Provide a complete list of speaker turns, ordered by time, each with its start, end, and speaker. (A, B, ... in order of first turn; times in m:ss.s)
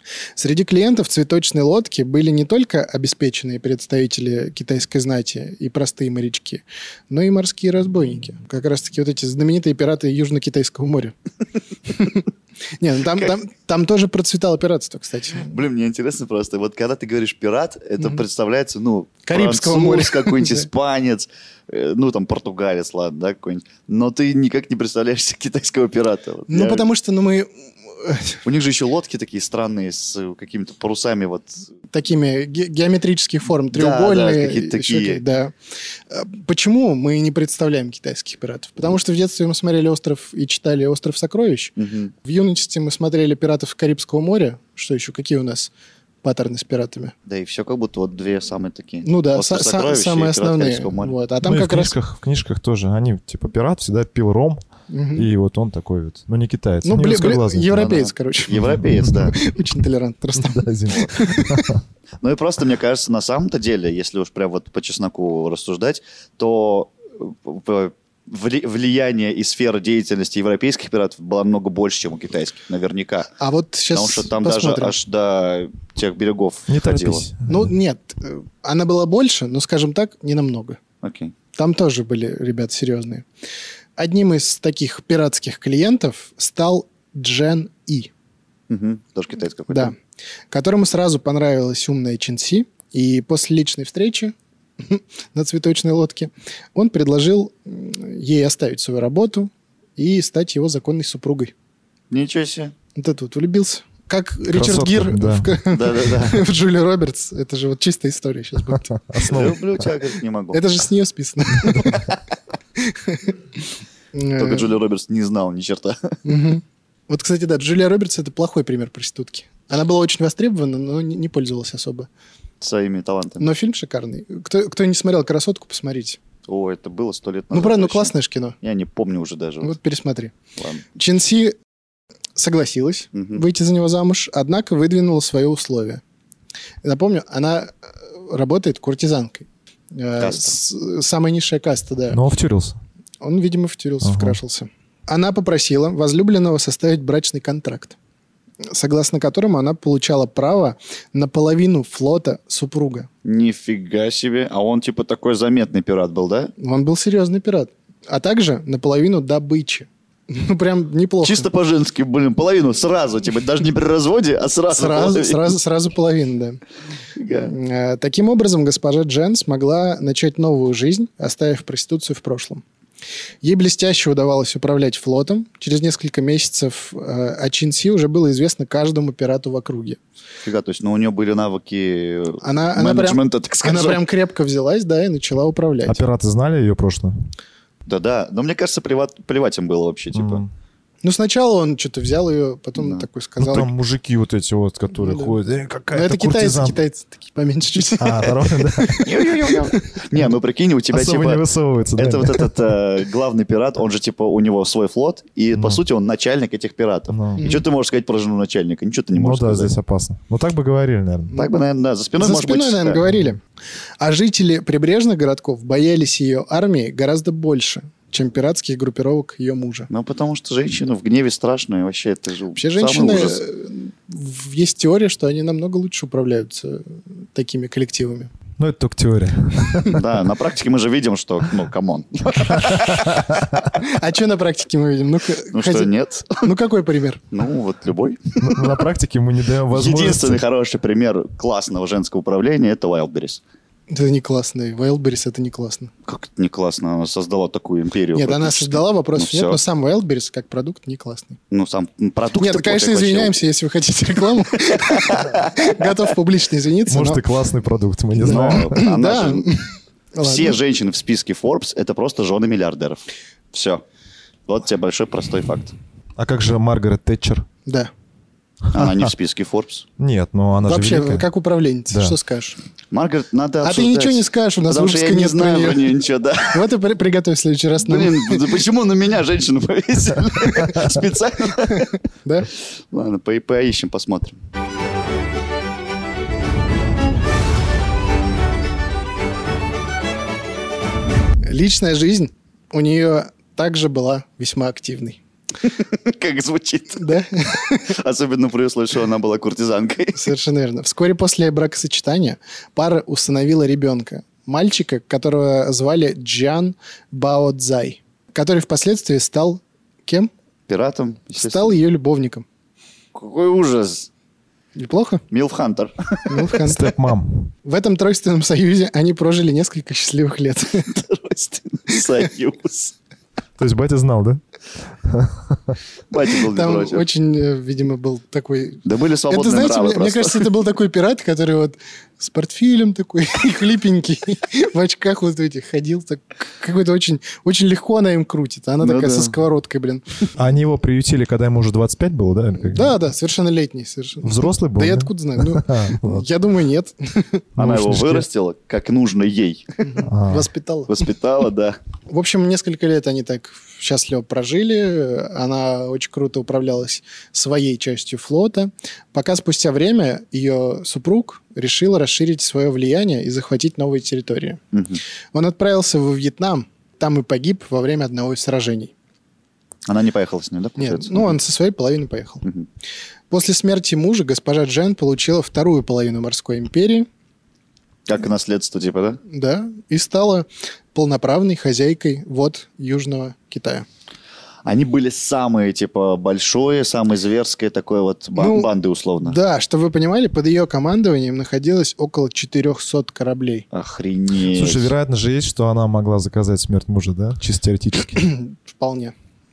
0:00.4-0:11.2 A
0:11.9-0:12.3 A
0:12.8-0:15.5 A
0:15.4-0:26.9 B
0:19.3-0:20.7 A
0:26.5-0:28.4 A
0:28.4-0:31.7 B
0:31.9-0:35.5 A
0:33.7-0:35.2 B
0:36.1-0:45.7 A
0:41.8-0:42.1 B
0:46.2-0:47.1 A
0:47.3-0:51.1 B
0:49.0-0:51.9 A
0:51.4-0:54.6 C
0:54.9-0:55.3 A
0:55.2-0:57.9 C
0:56.8-1:01.7 A
0:57.8-0:59.4 B
0:58.5-0:59.3 C
1:00.4-1:01.8 C
1:02.2-1:13.3 B
1:13.4-1:14.9 A
1:13.9-1:17.3 B
1:16.7-1:17.7 C
1:17.5-1:20.8 A
1:21.0-1:21.3 B
1:21.5-1:23.3 A
1:24.0-1:28.1 A
1:28.7-1:29.9 B
1:29.7-1:30.0 A
1:30.5-1:41.5 A
1:42.1-1:42.7 B
1:43.0-1:49.4 A
1:44.5-1:45.5 C
1:45.7-1:46.4 B
1:49.1-1:49.6 C
1:49.2-1:50.6 B
1:50.5-1:52.1 A
1:52.8-1:53.4 A
1:54.1-1:54.7 A
1:54.4-1:56.2 B
1:56.2-2:02.1 A
2:02.6-2:03.5 B
2:03.4-2:06.2 A
2:06.5-2:09.8 B
2:07.5-2:08.6 A
2:09.6-2:10.3 A
2:10.6-2:10.8 B
2:10.9-2:11.6 A
2:12.4-2:16.0 A
2:13.1-2:13.4 B
2:16.8-2:22.2 A
2:20.2-2:20.6 B
2:22.1-2:22.8 C
2:23.2-2:28.0 A
2:24.0-2:24.4 C
2:28.7-2:33.1 A
2:33.2-2:36.5 B
2:36.6-2:41.5 A
2:41.2-2:45.6 B
2:44.7-2:46.6 A
2:47.2-2:47.5 B
2:47.4-2:52.6 A
2:53.4-3:00.0 A
3:00.4-3:04.0 B
3:02.4-3:06.0 A
3:05.9-3:07.1 C
3:07.9-3:10.4 B
3:10.2-3:10.5 C
3:11.0-3:13.7 A
3:12.8-3:13.1 B
3:13.4-3:16.8 C
3:15.0-3:15.4 A
3:15.9-3:20.0 A
3:18.0-3:19.1 C
3:19.0-3:21.4 B
3:20.9-3:22.7 C
3:22.0-3:29.7 B
3:25.6-3:25.8 C
3:27.1-3:27.4 C
3:27.4-3:27.6 A
3:29.2-3:31.4 C
3:31.3-3:33.0 B
3:32.2-3:33.4 A
3:34.0-3:39.9 A
3:39.9-3:43.4 B
3:42.6-3:48.3 A
3:48.6-3:50.1 C
3:49.9-3:53.3 B
3:52.6-3:53.4 C
3:53.8-3:57.3 A
3:55.5-3:56.5 B
3:57.3-3:58.7 B
3:58.4-4:00.4 C
3:59.7-4:03.4 B
4:03.9-4:05.9 A
4:06.1-4:09.6 B
4:08.2-4:11.4 A
4:11.5-4:13.4 B
4:12.4-4:17.2 A
4:14.7-4:16.0 B
4:16.9-4:18.8 C
4:18.2-4:19.5 B
4:18.2-4:20.6 A
4:20.2-4:23.8 B
4:24.5-4:25.8 B
4:26.2-4:27.5 C
4:27.7-4:27.9 A
4:28.7-4:29.9 B
4:28.7-4:29.0 C
4:30.0-4:31.3 C
4:30.6-4:32.6 A
4:32.9-4:36.6 B
4:33.6-4:35.9 A
4:36.5-4:38.5 A
4:37.8-4:41.9 B
4:41.7-4:42.5 A
4:42.6-4:44.4 B
4:51.4-4:55.2 A
4:55.7-4:57.2 B
4:57.0-4:57.9 A
4:57.8-5:00.3 B
5:00.1-5:10.3 A
5:10.7-5:11.8 B
5:11.4-5:12.4 A
5:13.1-5:14.1 B
5:14.8-5:15.2 A
5:15.3-5:16.5 B
5:16.3-5:17.0 A
5:16.6-5:17.5 C
5:17.6-5:21.0 A
5:20.9-5:23.0 B
5:23.6-5:24.4 C
5:25.0-5:25.8 C
5:26.1-5:27.1 B
5:26.5-5:40.0 A
5:28.8-5:30.5 B
5:38.8-5:39.4 B
5:40.4-5:42.9 C
5:42.6-5:47.4 A
5:44.2-5:46.2 C
5:47.6-5:48.3 C
5:47.6-5:49.8 B
5:49.8-5:51.0 A
5:50.1-5:50.5 C
5:50.9-5:51.8 B
5:52.1-6:04.6 A
6:04.7-6:05.0 B
6:05.3-6:08.9 A
6:09.9-6:11.4 B
6:10.8-6:12.5 A
6:13.3-6:17.1 A
6:18.1-6:19.2 B
6:19.3-6:23.9 A
6:24.6-6:29.4 B
6:28.4-6:28.7 A
6:29.2-6:33.7 A
6:33.7-6:34.9 B
6:34.5-6:38.2 C
6:38.2-6:39.1 A